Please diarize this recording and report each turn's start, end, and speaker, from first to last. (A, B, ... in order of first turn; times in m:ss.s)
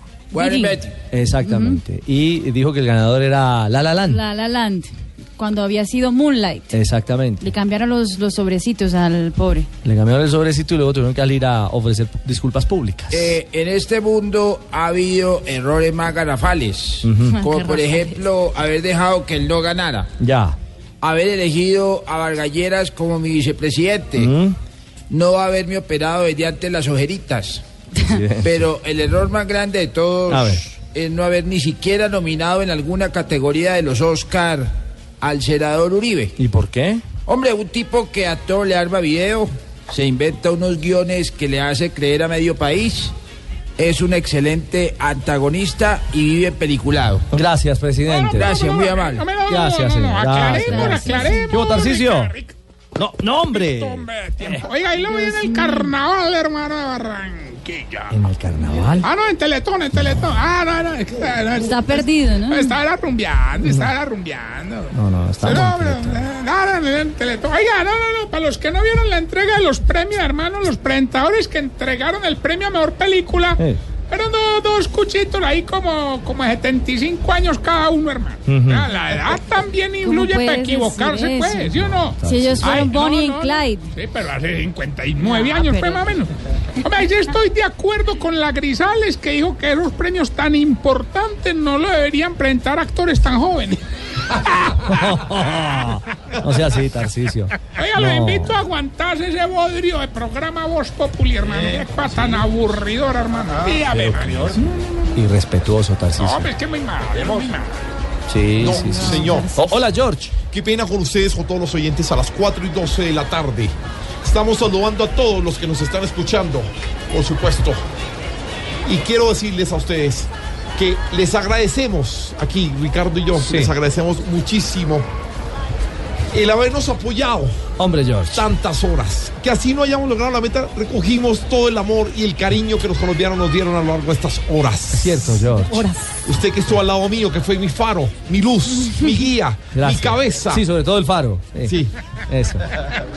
0:00.3-0:00.9 A
0:00.3-0:00.8 B
0:01.1-0:04.2 C
0:01.4-0:01.8 B
0:04.1-0:06.7 B
0:06.7-0:07.4 C
0:07.4-0:09.7 B
0:09.8-0:13.3 C
0:13.1-0:20.1 A
0:17.0-0:17.4 C
0:17.4-0:18.1 B
0:20.2-0:20.6 C
0:21.0-0:24.3 A
0:24.2-0:24.5 C
0:25.1-0:27.6 A
0:28.0-0:28.5 C
0:28.4-0:36.3 A
0:30.3-0:30.6 C
0:36.4-0:37.0 C
0:37.3-0:43.1 A
0:43.8-0:47.2 A
0:47.3-0:48.6 C
0:48.1-0:52.5 D
0:48.3-0:49.2 A
0:49.5-0:52.3 C
0:50.6-0:51.5 B
0:53.0-0:54.6 C
0:53.5-0:58.1 D
0:55.1-0:55.9 B
0:58.1-0:59.1 C
0:59.0-1:33.8 D
1:01.6-1:02.8 B
1:03.6-1:03.9 C
1:04.9-1:06.3 C
1:18.4-1:18.9 C
1:20.0-1:23.9 B
1:22.0-1:22.8 C
1:25.4-1:25.8 B
1:34.8-1:38.6 C
1:37.8-1:44.6 D
1:43.9-1:44.6 C
1:45.1-1:46.5 C
1:46.2-1:47.7 D
1:48.3-1:50.3 C
1:48.6-1:49.5 E
1:49.0-1:49.5 B
1:50.5-1:57.8 E
1:58.8-2:05.1 E
2:03.4-2:03.7 C
2:06.3-2:07.6 E
2:07.8-2:08.5 C
2:08.3-2:15.1 E
2:14.9-2:15.8 C
2:15.7-2:16.1 B
2:16.2-2:20.6 E
2:19.7-2:22.6 C